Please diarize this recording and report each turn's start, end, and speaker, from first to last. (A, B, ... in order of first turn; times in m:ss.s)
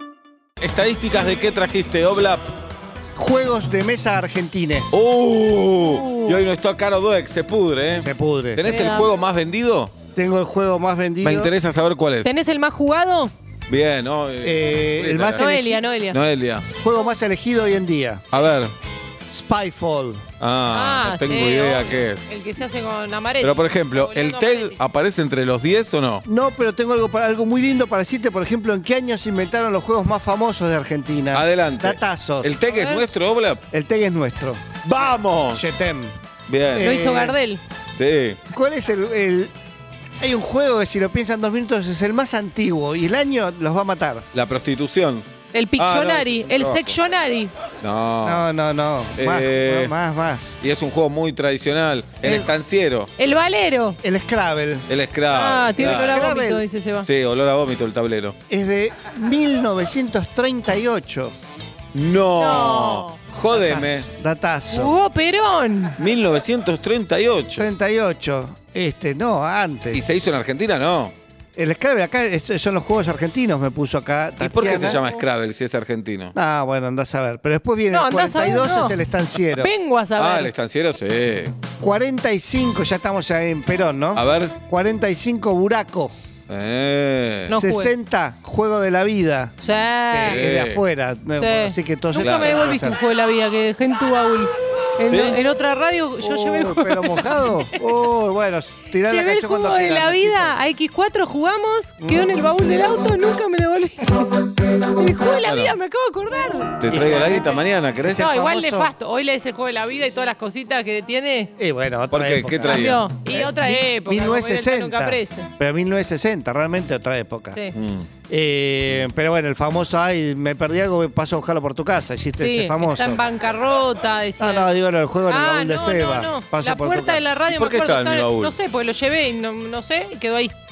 0:00.6-0:02.5 A
0:03.2-0:05.0 B
0:04.9-0:10.0 A
0:05.8-0:06.4 C
0:08.0-0:08.7 B
0:08.6-0:09.1 C
0:10.1-0:11.5 B
0:11.2-0:12.3 A
0:12.2-0:13.3 C
0:13.7-0:15.5 A
0:14.4-0:15.8 B
0:15.4-0:16.2 C
0:16.1-0:16.7 A
0:16.8-0:18.2 B
0:18.3-0:18.7 A
0:19.3-0:20.2 B
0:20.4-0:22.3 A
0:20.7-0:24.8 C
0:23.4-0:26.2 A
0:26.2-0:32.5 B
0:31.3-0:33.6 A
0:32.7-0:33.1 C
0:33.7-0:34.6 B
0:34.8-0:35.6 A
0:35.5-0:36.1 B
0:36.5-0:37.0 A
0:36.7-0:37.4 B
0:36.8-0:37.6 C
0:37.9-0:38.4 A
0:38.5-0:39.5 B
0:40.2-0:44.3 B
0:44.3-0:47.0 A
0:45.5-0:47.5 C
0:47.8-0:48.4 A
0:48.2-0:50.5 B
0:49.2-0:49.9 A
0:50.6-0:53.1 A
0:52.2-0:52.5 B
0:53.2-0:54.0 C
0:54.0-0:54.9 B
0:54.9-0:56.3 A
0:55.3-0:57.1 C
0:56.0-0:56.6 B
0:57.0-0:58.4 A
0:58.5-1:01.3 B
1:01.9-1:04.1 A
1:02.4-1:03.2 C
1:03.5-1:04.9 B
1:04.7-1:06.0 C
1:06.0-1:07.7 A
1:07.6-1:10.0 B
1:09.9-1:11.1 A
1:11.6-1:15.0 B
1:14.4-1:16.3 A
1:14.6-1:15.2 C
1:16.3-1:19.7 B
1:17.9-1:19.0 C
1:19.5-1:20.5 C
1:20.2-1:21.5 A
1:21.8-1:26.1 B
1:24.1-1:24.6 A
1:26.5-1:27.6 A
1:27.5-1:27.9 C
1:27.5-1:29.5 B
1:29.6-1:30.4 C
1:30.1-1:33.0 B
1:30.2-1:30.8 A
1:31.4-1:37.8 C
1:32.2-1:32.6 A
1:35.0-1:35.4 A
1:36.2-1:40.6 B
1:39.0-1:46.8 C
1:42.0-1:42.4 B
1:45.4-1:45.8 A
1:46.8-1:48.3 A
1:46.9-1:48.9 B
1:48.2-1:51.5 C
1:51.6-1:57.6 B
1:52.1-1:53.0 A
1:52.6-1:55.5 C
1:57.7-1:58.1 A
1:58.3-2:03.2 B
2:02.4-2:04.7 C
2:04.4-2:07.2 B
2:05.3-2:10.5 C
2:07.5-2:08.6 A